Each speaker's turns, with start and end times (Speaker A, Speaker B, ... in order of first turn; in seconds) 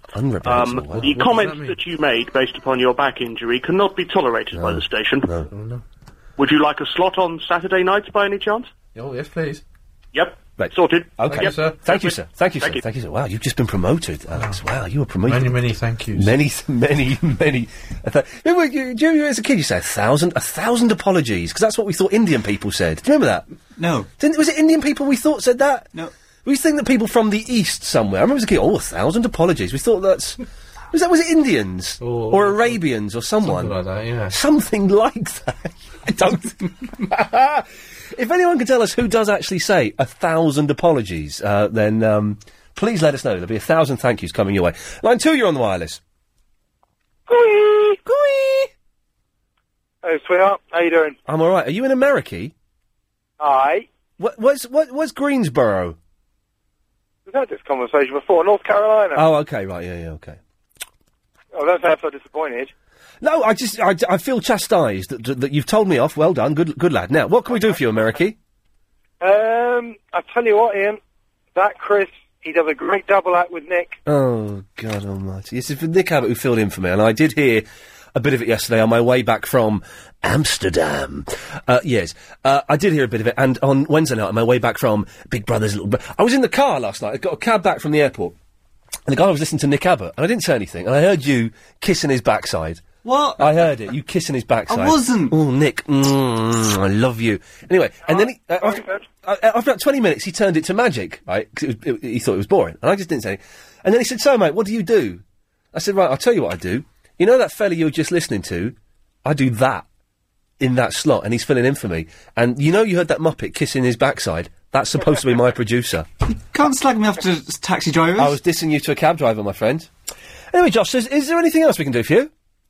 Speaker A: 0.1-1.1, 4.5-5.5, 10.6-15.6, 16.1-23.5, 24.2-25.9, 26.4-30.4, 30.9-46.0, 48.1-48.7, 51.2-52.5, 54.2-56.0, 59.1-60.4, 63.2-68.4, 74.0-88.3, 89.1-92.8, 93.4-105.2, 105.7-109.8, 110.6-116.1, 118.2-119.9, 120.5-122.3
Speaker B: 0.5-5.3, 6.4-8.7, 10.1-12.8
Speaker C: 1.0-1.8, 5.5-5.8, 8.9-9.6, 11.2-11.8, 15.2-16.4, 32.0-32.8, 33.4-34.4
Speaker D: 23.8-24.1, 93.0-93.6, 94.7-95.4, 116.5-118.4
Speaker E: 47.3-48.0, 50.0-51.2, 53.4-53.9, 57.3-59.2, 61.5-62.7, 69.2-71.0, 71.5-74.0, 98.7-99.0